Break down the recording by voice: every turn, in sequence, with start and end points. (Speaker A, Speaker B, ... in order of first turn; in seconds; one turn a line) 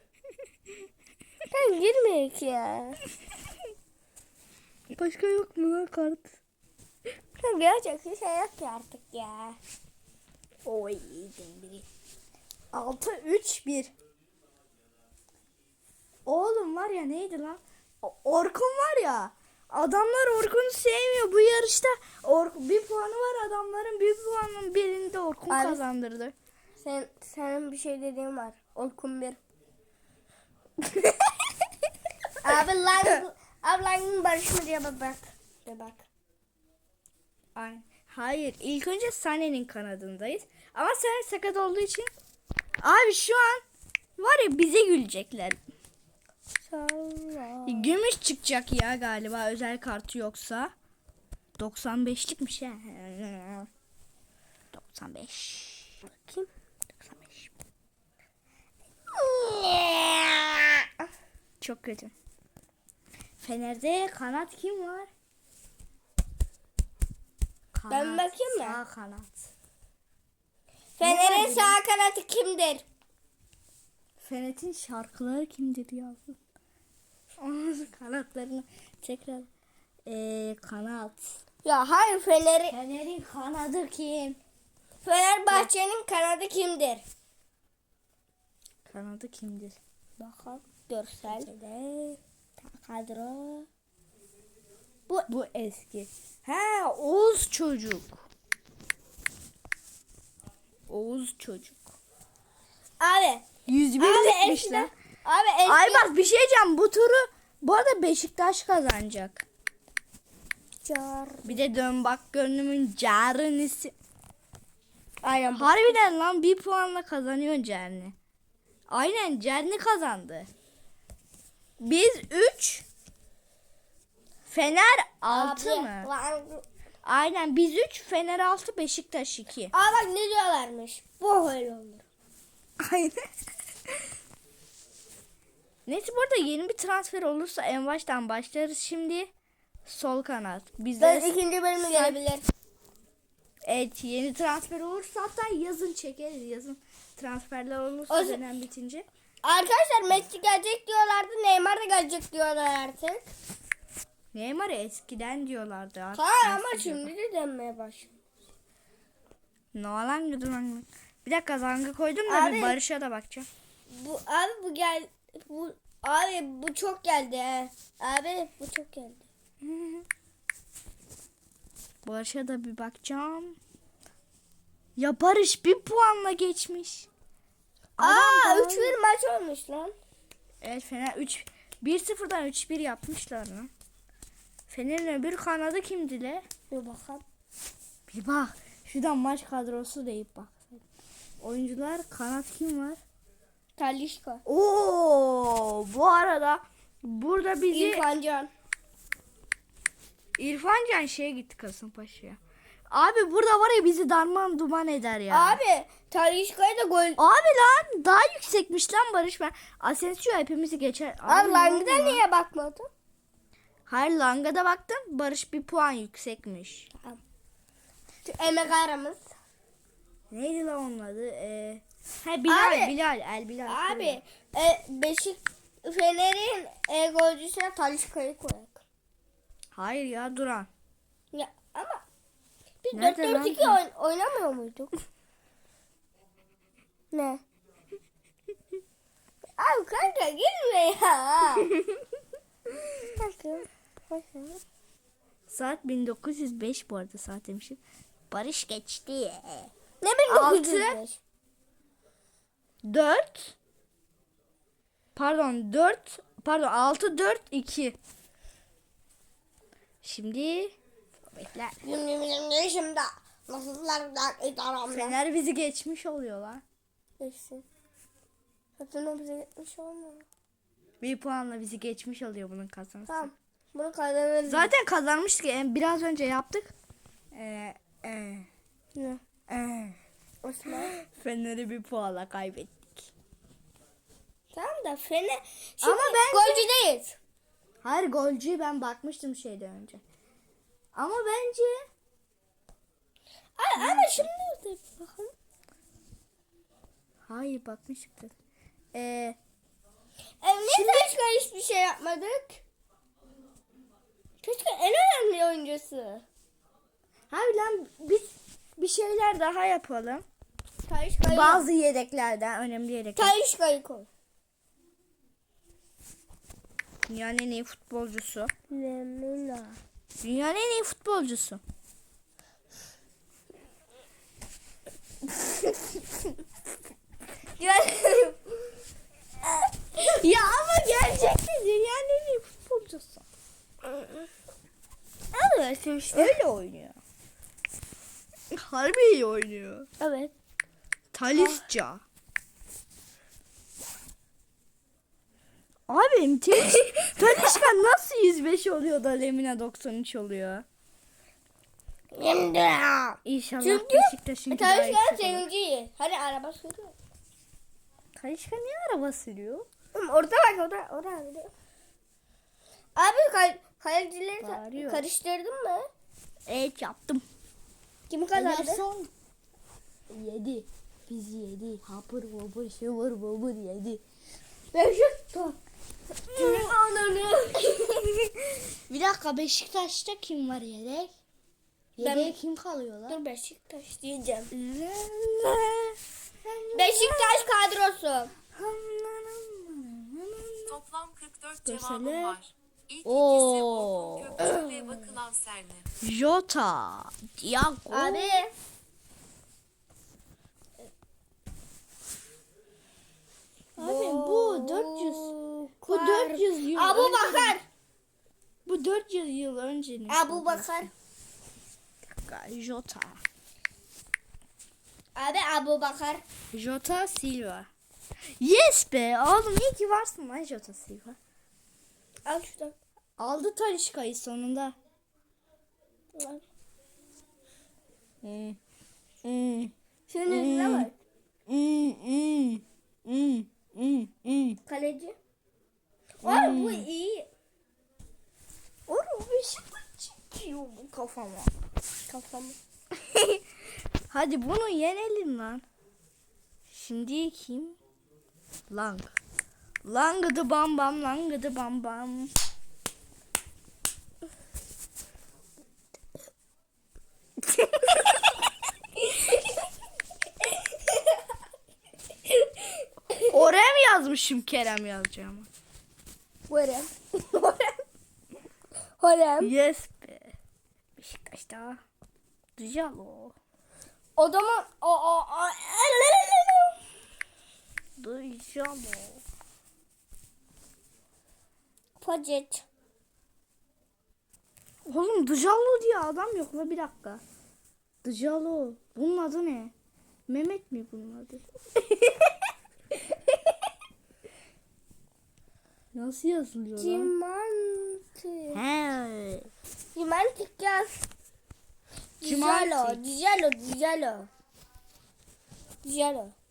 Speaker A: 1.5-3.0
Speaker B: 4.9-6.4
Speaker A: 7.3-9.6
Speaker B: 10.6-11.8
Speaker B: 12.7-13.9
Speaker B: 16.2-26.3
Speaker A: 25.5-25.8
Speaker A: 26.8-29.4
Speaker A: 32.4-36.1
Speaker B: 37.5-42.1
Speaker B: 42.8-43.6
Speaker B: 44.2-45.6
Speaker A: 46.6-47.9
Speaker B: 47.6-50.7
Speaker B: 51.6-53.7
Speaker B: 54.7-56.0
Speaker A: 56.0-56.5
Speaker B: 57.0-57.5
Speaker A: 59.1-60.9
Speaker B: 61.6-62.1
Speaker B: 63.4-65.1
Speaker B: 67.7-69.5
Speaker A: 67.9-68.8
Speaker A: 71.0-72.8
Speaker B: 71.0-71.8
Speaker B: 74.2-76.4
Speaker B: 77.4-79.5
Speaker B: 80.0-81.4
Speaker A: 81.6-82.7
Speaker B: 82.7-84.4
Speaker A: 85.0-87.0
Speaker B: 88.8-89.8
Speaker A: 90.2-91.6
Speaker B: 91.3-92.2
Speaker A: 92.6-93.7
Speaker B: 95.1-98.3
Speaker B: 100.9-101.8
Speaker A: 103.0-103.5
Speaker B: 103.7-104.9
Speaker A: 104.0-106.1
Speaker B: 105.6-109.4
Speaker A: 110.8-111.6
Speaker B: 111.4-113.9
Speaker A: 115.2-116.0
Speaker B: 115.5-118.1
Speaker B: 118.9-120.5
Speaker B: 121.8-122.8
Speaker B: 124.5-126.1
Speaker A: 125.3-126.7
Speaker B: 127.0-129.7
Speaker A: 129.7-132.1
Speaker B: 132.8-133.3
Speaker B: 135.8-139.3
Speaker B: 139.8-142.2
Speaker A: 141.0-142.4
Speaker B: 143.7-149.1
Speaker A: 148.1-148.4
Speaker A: 149.4-153.2
Speaker B: 154.3-157.1
Speaker A: 156.1-158.1
Speaker B: 159.7-163.5
Speaker A: 162.3-162.8
Speaker A: 163.9-169.2
Speaker B: 169.6-170.0
Speaker B: 172.0-173.6
Speaker B: 175.0-177.1
Speaker B: 178.0-178.9
Speaker A: 178.0-179.9
Speaker B: 180.6-183.7
Speaker B: 184.7-186.4
Speaker A: 186.7-187.2
Speaker B: 188.1-190.8
Speaker B: 191.4-193.0
Speaker A: 193.8-194.4
Speaker B: 194.4-198.0
Speaker A: 197.7-198.5
Speaker B: 200.4-202.4
Speaker B: 202.9-205.6
Speaker A: 205.3-207.2
Speaker B: 207.2-212.2
Speaker A: 211.2-212.9
Speaker B: 213.9-216.9
Speaker A: 216.9-217.2
Speaker A: 218.2-219.3
Speaker B: 220.3-224.2
Speaker A: 222.5-222.9
Speaker A: 223.7-228.8
Speaker B: 229.7-230.7
Speaker A: 231.3-232.0
Speaker A: 232.8-234.9
Speaker B: 232.9-233.8
Speaker A: 237.1-237.4
Speaker A: 239.6-241.7
Speaker A: 243.1-244.6
Speaker B: 245.5-249.7
Speaker A: 250.0-251.2
Speaker B: 250.3-251.0
Speaker B: 252.8-253.6
Speaker B: 255.2-258.0
Speaker B: 260.0-260.8
Speaker B: 261.3-261.8
Speaker A: 261.8-265.2
Speaker B: 264.9-266.6
Speaker A: 267.2-267.6
Speaker A: 268.8-270.2
Speaker B: 271.0-273.3
Speaker A: 273.1-274.7
Speaker B: 274.5-276.7
Speaker B: 277.3-278.5
Speaker A: 278.9-279.2
Speaker B: 279.5-280.0
Speaker A: 280.4-280.9
Speaker B: 280.7-283.1
Speaker A: 284.5-287.2
Speaker B: 285.8-286.6
Speaker B: 287.8-290.0
Speaker B: 290.9-291.9
Speaker A: 293.6-295.3
Speaker B: 293.7-294.3
Speaker B: 297.3-298.3
Speaker B: 298.9-299.4
Speaker A: 300.4-302.6
Speaker B: 300.7-301.1
Speaker A: 304.4-306.2
Speaker B: 307.3-310.2
Speaker A: 310.9-311.6
Speaker B: 311.2-313.3
Speaker A: 313.1-314.1
Speaker B: 317.1-318.5
Speaker A: 318.7-319.8
Speaker B: 320.2-321.6
Speaker A: 327.6-328.6
Speaker B: 329.9-333.2
Speaker A: 333.8-334.3
Speaker A: 335.3-336.3
Speaker B: 336.1-337.0
Speaker B: 338.5-339.9
Speaker A: 340.0-340.3
Speaker B: 341.1-342.0
Speaker B: 345.9-350.6
Speaker A: 352.1-356.9
Speaker B: 353.2-355.4
Speaker B: 358.1-359.7
Speaker A: 359.9-361.5
Speaker A: 362.9-365.9
Speaker B: 364.4-365.0
Speaker B: 366.5-367.2
Speaker A: 368.1-368.8
Speaker B: 368.4-369.1
Speaker B: 370.1-374.0
Speaker A: 374.7-375.6
Speaker B: 376.3-376.8
Speaker A: 376.3-378.0
Speaker B: 377.8-381.1
Speaker B: 382.0-383.2
Speaker A: 382.0-382.3
Speaker A: 383.1-384.5
Speaker B: 384.5-387.5
Speaker A: 386.7-388.3
Speaker B: 388.5-390.8
Speaker C: 390.7-395.9
Speaker B: 391.6-392.4
Speaker B: 393.0-394.4
Speaker A: 394.4-394.9
Speaker B: 396.0-398.4
Speaker A: 397.9-398.5
Speaker B: 403.8-407.6
Speaker A: 403.8-407.6
Speaker B: 408.6-410.9
Speaker A: 410.1-410.9
Speaker B: 412.2-413.2
Speaker A: 415.1-416.2
Speaker B: 416.5-417.7
Speaker B: 418.4-421.2
Speaker A: 422.2-422.8
Speaker B: 423.2-424.7
Speaker A: 426.1-426.4
Speaker B: 428.2-428.6
Speaker B: 429.2-429.7
Speaker A: 430.1-431.0
Speaker B: 430.3-430.9
Speaker B: 431.5-434.6
Speaker A: 434.6-435.2
Speaker A: 436.2-437.3
Speaker B: 436.2-436.9
Speaker B: 438.9-441.5
Speaker A: 442.1-442.6
Speaker B: 444.1-445.6
Speaker B: 446.7-447.8
Speaker B: 448.7-449.1
Speaker B: 449.8-452.3
Speaker A: 459.1-459.5
Speaker A: 460.7-461.0
Speaker A: 462.2-463.2
Speaker B: 463.3-465.5
Speaker A: 466.5-467.8
Speaker A: 469.0-469.5
Speaker B: 469.4-470.4
Speaker B: 471.0-471.8
Speaker B: 472.6-473.3
Speaker A: 474.2-476.8
Speaker B: 478.0-479.2
Speaker A: 482.0-482.6
Speaker B: 484.9-487.2
Speaker B: 488.0-489.7
Speaker B: 490.3-491.4
Speaker A: 491.8-492.3
Speaker B: 495.9-497.1
Speaker A: 496.8-498.6
Speaker B: 498.5-499.5
Speaker A: 499.9-501.1
Speaker A: 502.2-504.3
Speaker B: 502.2-503.0
Speaker A: 505.8-506.3